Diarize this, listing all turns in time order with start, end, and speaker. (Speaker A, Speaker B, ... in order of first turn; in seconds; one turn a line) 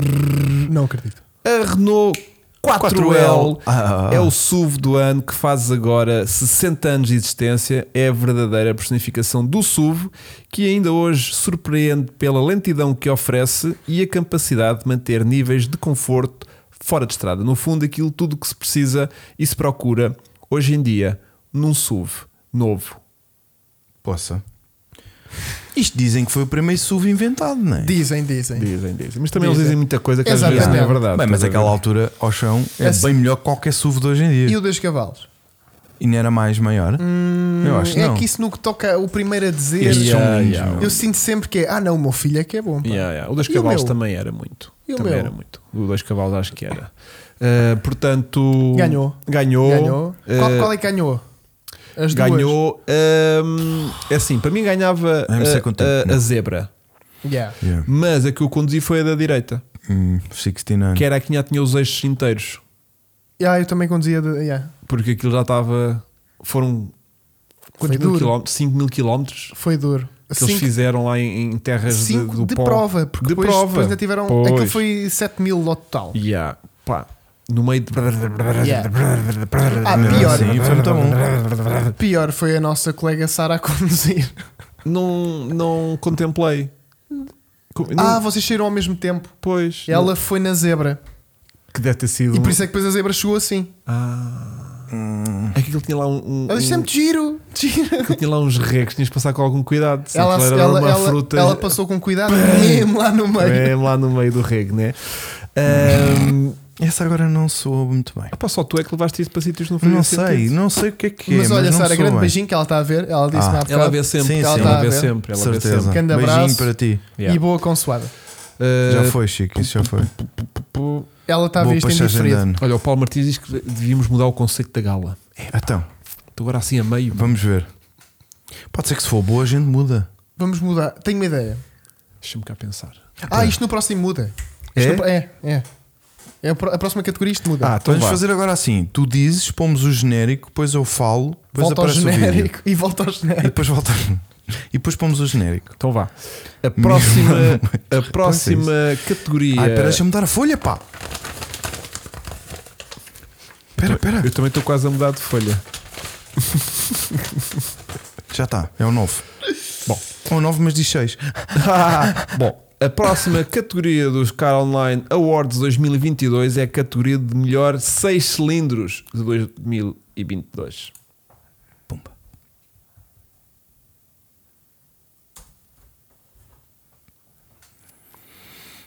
Speaker A: 0.6-1.2
Speaker B: 1.4-23.0
Speaker C: 2.8-4.3
Speaker C: 24.0-24.4
Speaker C: 25.7-28.0
Speaker A: 27.8-28.7
Speaker B: 28.5-31.8
Speaker A: 29.4-31.0
Speaker C: 30.4-34.6
Speaker A: 32.8-33.1
Speaker A: 34.5-35.3
Speaker C: 36.0-37.0
Speaker A: 37.0-44.0
Speaker C: 37.6-38.3
Speaker C: 39.8-41.0
Speaker B: 39.8-40.9
Speaker B: 42.8-50.7
Speaker A: 44.9-45.3
Speaker A: 48.7-51.2
Speaker A: 52.0-52.6
Speaker B: 52.1-56.7
Speaker C: 55.3-56.2
Speaker A: 57.2-57.6
Speaker C: 57.6-57.9
Speaker B: 57.8-59.6
Speaker C: 59.9-61.0
Speaker B: 60.9-62.6
Speaker A: 63.4-64.7
Speaker B: 64.8-66.9
Speaker A: 67.8-68.3
Speaker B: 67.8-69.5
Speaker A: 69.5-70.7
Speaker B: 70.3-74.8
Speaker A: 71.9-76.2
Speaker B: 76.1-81.9
Speaker A: 78.6-78.9
Speaker A: 79.8-80.6
Speaker C: 79.9-81.2
Speaker A: 82.0-84.4
Speaker B: 84.8-86.7
Speaker B: 87.7-88.2
Speaker A: 87.9-91.0
Speaker B: 89.4-90.1
Speaker B: 91.7-92.6
Speaker A: 92.3-93.7
Speaker B: 93.9-94.9
Speaker C: 94.9-95.5
Speaker B: 95.5-96.9
Speaker A: 96.5-98.2
Speaker B: 98.0-101.8
Speaker A: 100.1-103.8
Speaker B: 102.3-106.6
Speaker C: 105.7-108.3
Speaker B: 108.3-110.5
Speaker C: 109.8-112.3
Speaker A: 111.2-115.1
Speaker C: 113.3-117.0
Speaker B: 113.7-116.0
Speaker A: 115.8-118.1
Speaker B: 118.6-121.1
Speaker C: 118.9-120.1
Speaker A: 121.3-122.5
Speaker C: 121.6-122.6
Speaker B: 122.6-125.7
Speaker C: 125.5-125.9
Speaker B: 126.3-127.4
Speaker C: 127.1-127.7
Speaker C: 128.7-130.1
Speaker A: 130.4-131.6
Speaker B: 132.2-133.0
Speaker A: 133.3-135.7
Speaker C: 133.3-133.6
Speaker B: 134.8-135.1
Speaker A: 136.4-137.8
Speaker B: 137.6-138.2
Speaker C: 137.8-142.5
Speaker A: 141.5-143.6
Speaker C: 143.4-145.8
Speaker B: 145.8-150.0
Speaker C: 146.8-148.7
Speaker C: 149.5-150.8
Speaker C: 153.8-154.3
Speaker B: 153.8-155.6
Speaker B: 156.4-157.4
Speaker C: 158.3-159.2
Speaker C: 160.2-162.4
Speaker B: 161.5-170.9